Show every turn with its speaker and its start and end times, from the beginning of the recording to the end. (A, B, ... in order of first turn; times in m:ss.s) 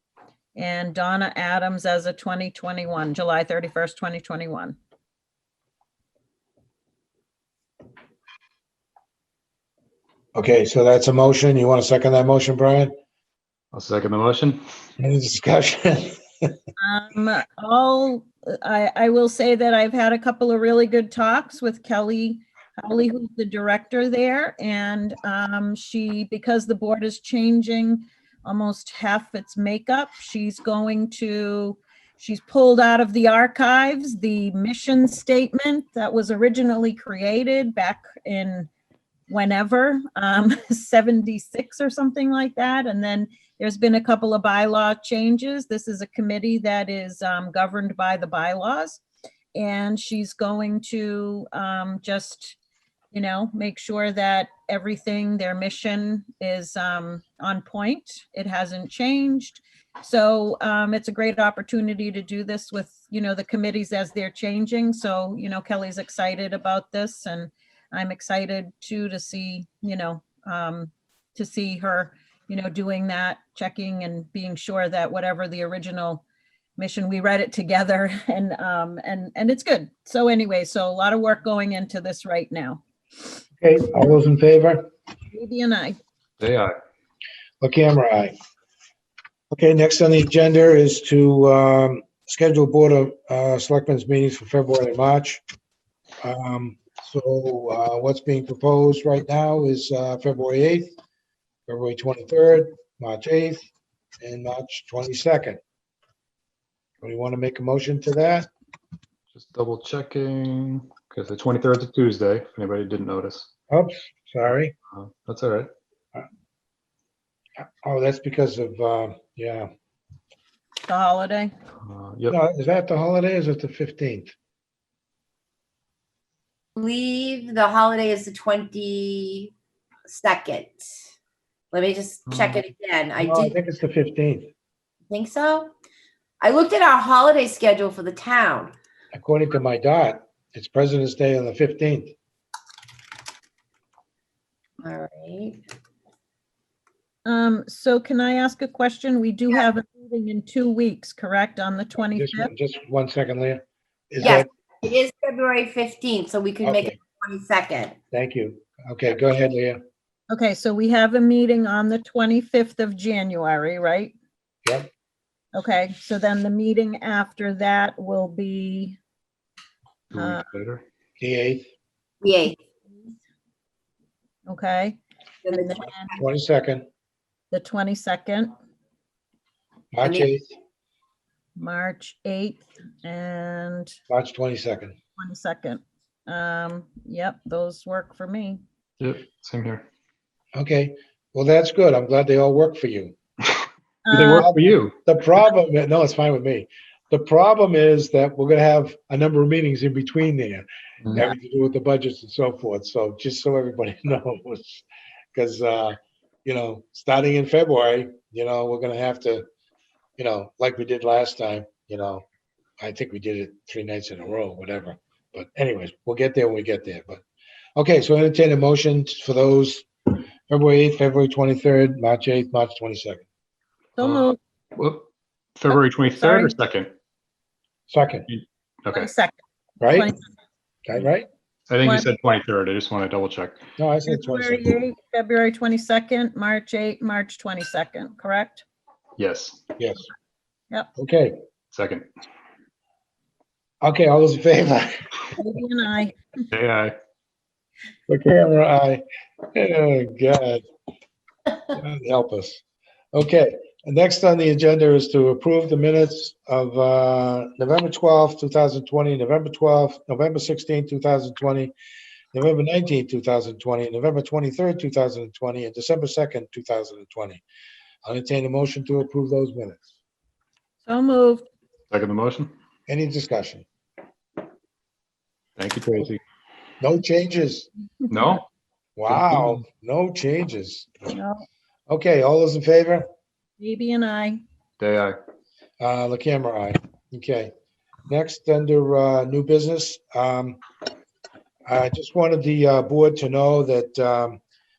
0:00.6-0:04.8 A
0:10.3-0:13.0 B
0:13.7-0:14.6 C
0:15.0-0:16.2 B
0:16.8-0:38.7 A
0:39.3-0:49.0 A
0:49.6-0:52.6 A
0:53.1-1:16.2 A
1:16.8-1:22.8 A
1:23.6-1:24.9 B
1:25.3-1:26.0 A
1:26.4-1:26.7 C
1:27.6-1:28.3 B
1:29.5-1:35.4 B
1:36.2-1:40.9 B
1:41.7-1:43.6 B
1:44.2-1:45.6 B
1:47.0-1:48.5 B
1:49.3-1:53.5 C
1:53.7-1:54.7 B
1:54.9-1:55.7 C
1:57.6-1:59.7 B
2:00.8-2:01.5 A
2:01.8-2:02.4 C
2:02.3-2:04.3 B
2:06.8-2:09.5 D
2:10.1-2:10.9 D
2:11.7-2:13.6 D
2:12.3-2:12.7 C
2:13.2-2:14.5 B
2:15.1-2:15.7 D
2:16.4-2:18.8 D
2:19.1-2:22.2 B
2:24.8-2:25.6 D
2:27.2-2:32.5 A
2:32.1-2:34.5 B
2:34.2-2:38.0 D
2:36.6-2:37.0 B
2:38.1-2:39.8 B
2:40.3-2:44.2 A
2:45.5-2:49.0 A
2:50.1-2:50.8 C
2:50.1-2:50.5 A
2:51.2-2:51.7 B
2:52.2-2:53.1 D
2:54.5-2:56.1 A
2:55.4-2:56.0 D
2:56.1-2:56.9 B
2:57.5-2:58.5 A
2:59.9-3:00.5 B
3:00.0-3:00.3 D
3:01.6-3:04.0 A
3:04.1-3:05.0 B
3:05.2-3:08.6 A
3:09.0-3:09.9 C
3:10.5-3:13.2 B
3:14.1-3:14.5 A
3:14.1-3:15.0 C
3:14.2-3:29.5 B
3:30.2-3:32.2 B
3:32.8-3:37.2 B
3:37.8-3:39.9 B
3:40.5-3:43.2 B
3:44.0-3:44.4 A
3:44.0-3:46.9 C
3:45.7-3:46.6 A
3:47.9-3:48.3 B
3:48.3-3:49.1 C
3:48.9-3:50.2 A
3:49.8-3:50.1 B
3:50.9-3:51.3 B
3:51.7-3:53.6 C
3:51.8-3:52.1 A
3:53.8-3:54.8 B
3:54.1-3:58.6 A
3:59.2-3:59.6 C
3:59.8-4:00.1 B
4:01.0-4:01.4 B
4:01.7-4:02.1 C
4:03.8-4:05.4 B
4:05.4-4:06.2 A
4:06.5-4:07.0 C
4:08.1-4:10.6 B
4:11.7-4:12.6 B
4:13.1-4:21.7 B
4:22.3-4:27.4 B
4:28.0-4:30.0 B
4:30.8-4:31.4 A
4:31.9-4:32.5 C
4:32.9-4:33.7 B
4:35.6-4:36.2 C
4:36.8-4:37.7 B
4:38.1-4:38.5 C
4:39.0-4:41.2 B
4:39.1-4:39.6 C
4:41.1-4:41.4 A
4:41.9-4:43.1 B
4:43.6-4:44.4 A
4:44.8-4:45.2 C
4:45.8-4:47.5 B
4:48.1-4:50.6 B
4:51.7-4:54.4 B